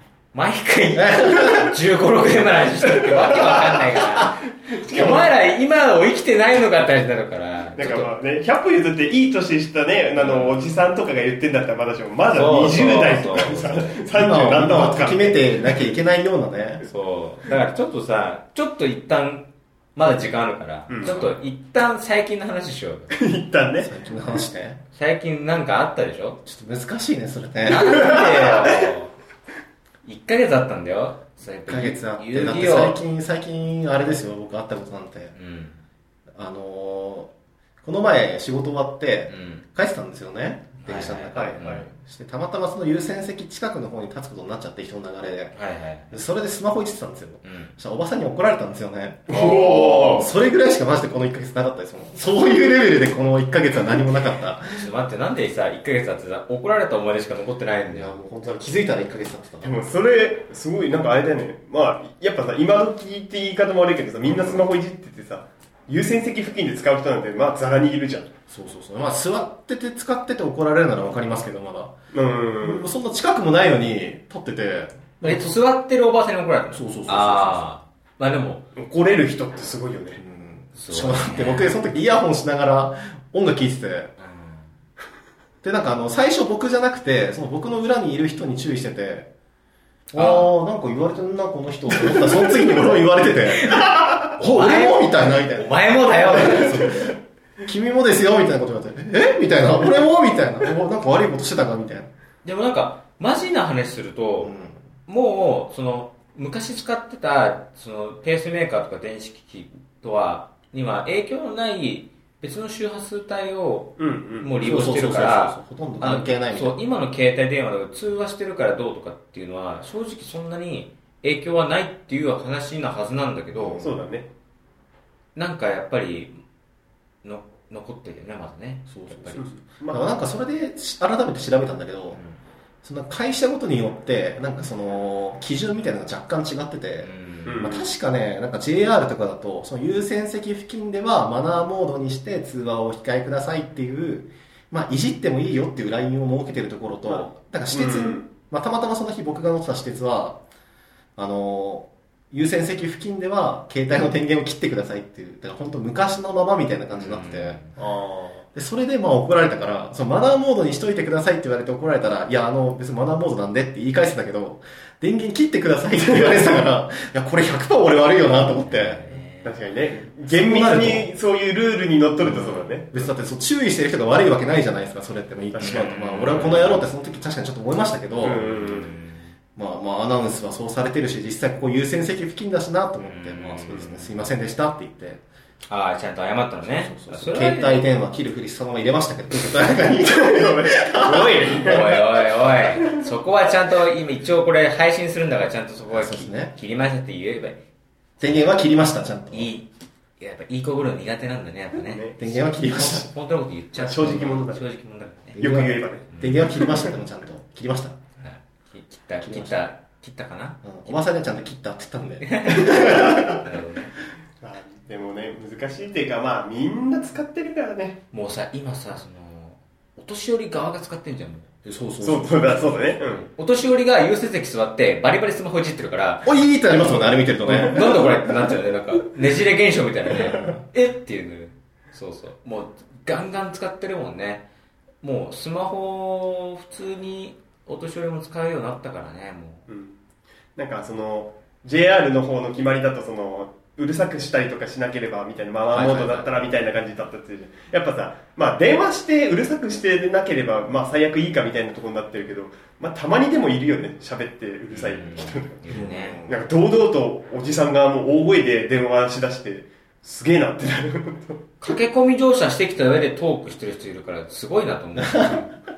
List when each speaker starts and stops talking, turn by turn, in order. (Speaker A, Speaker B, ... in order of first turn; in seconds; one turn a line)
Speaker A: 0.3-8.1
Speaker B: 0.9-1.8
Speaker C: 2.9-3.8
Speaker C: 4.7-5.3
Speaker C: 7.8-15.9
Speaker A: 10.2-10.6
Speaker A: 12.3-13.9
Speaker B: 14.1-16.9
Speaker A: 16.8-23.1
Speaker C: 20.9-21.2
Speaker C: 23.1-23.9
Speaker B: 23.8-24.8
Speaker A: 24.9-26.4
Speaker B: 26.4-28.6
Speaker A: 27.6-29.1
Speaker C: 28.3-28.9
Speaker A: 30.0-33.0
Speaker B: 31.6-35.3
Speaker A: 35.3-35.8
Speaker B: 36.4-37.3
Speaker B: 37.8-45.6
Speaker A: 39.3-39.6
Speaker A: 40.8-41.9
Speaker C: 41.3-41.9
Speaker A: 45.5-46.2
Speaker B: 46.1-54.9
Speaker A: 47.4-47.7
Speaker C: 49.3-50.3
Speaker A: 54.7-58.2
Speaker B: 57.9-59.8
Speaker C: 59.6-68.3
Speaker B: 64.2-64.7
Speaker B: 68.5-71.9
Speaker C: 72.1-72.9
Speaker B: 72.6-75.6
Speaker A: 75.2-78.6
Speaker B: 76.7-77.7
Speaker C: 78.8-80.2
Speaker B: 80.2-84.1
Speaker A: 80.7-81.8
Speaker A: 84.2-84.7
Speaker B: 85.6-89.3
Speaker A: 90.1-90.5
Speaker B: 90.1-97.1
Speaker C: 92.0-93.0
Speaker C: 93.7-94.2
Speaker A: 94.4-96.9
Speaker C: 96.4-97.1
Speaker B: 97.7-102.1
Speaker A: 102.4-104.5
Speaker B: 104.4-104.8
Speaker A: 105.0-123.9
Speaker C: 114.0-114.6
Speaker B: 114.6-116.8
Speaker B: 123.5-123.9
Speaker C: 123.8-124.3
Speaker A: 125.3-126.4
Speaker A: 127.2-129.4
Speaker B: 128.9-132.2
Speaker C: 129.4-130.1
Speaker B: 132.8-150.4
Speaker A: 137.0-137.7
Speaker C: 137.4-137.9
Speaker C: 147.1-148.3
Speaker B: 151.2-157.7
Speaker A: 156.9-157.7
Speaker C: 157.8-158.4
Speaker B: 158.5-169.0
Speaker C: 166.0-166.6
Speaker A: 168.7-169.6
Speaker C: 169.4-173.1
Speaker B: 170.3-171.1
Speaker B: 172.2-178.4
Speaker C: 175.5-175.9
Speaker A: 175.6-176.9
Speaker C: 178.2-178.9
Speaker A: 178.2-179.3
Speaker B: 179.6-185.2
Speaker A: 183.0-184.2
Speaker A: 185.7-187.9
Speaker B: 186.6-192.0
Speaker C: 190.0-192.1
Speaker A: 191.6-197.6
Speaker C: 192.8-193.1
Speaker B: 195.9-196.5
Speaker B: 198.2-199.5
Speaker A: 199.3-199.7
Speaker A: 200.2-205.4
Speaker C: 201.7-202.3
Speaker B: 202.2-203.1
Speaker C: 203.8-204.6
Speaker C: 205.4-206.9
Speaker B: 205.4-208.0
Speaker A: 206.1-206.5
Speaker A: 208.2-211.0
Speaker B: 209.2-209.6
Speaker B: 210.6-213.4
Speaker A: 212.2-213.9
Speaker C: 212.5-213.4
Speaker C: 214.4-218.0
Speaker A: 218.1-221.5
Speaker B: 221.6-223.0
Speaker C: 222.0-223.3
Speaker A: 223.0-226.2
Speaker B: 226.2-228.1
Speaker A: 227.4-234.4
Speaker B: 230.1-230.6
Speaker A: 235.0-239.7
Speaker C: 239.7-240.0
Speaker C: 240.6-255.6
Speaker B: 245.7-246.3
Speaker A: 254.7-256.2
Speaker B: 255.7-256.4
Speaker C: 256.2-261.8
Speaker A: 261.6-265.5
Speaker B: 265.0-265.5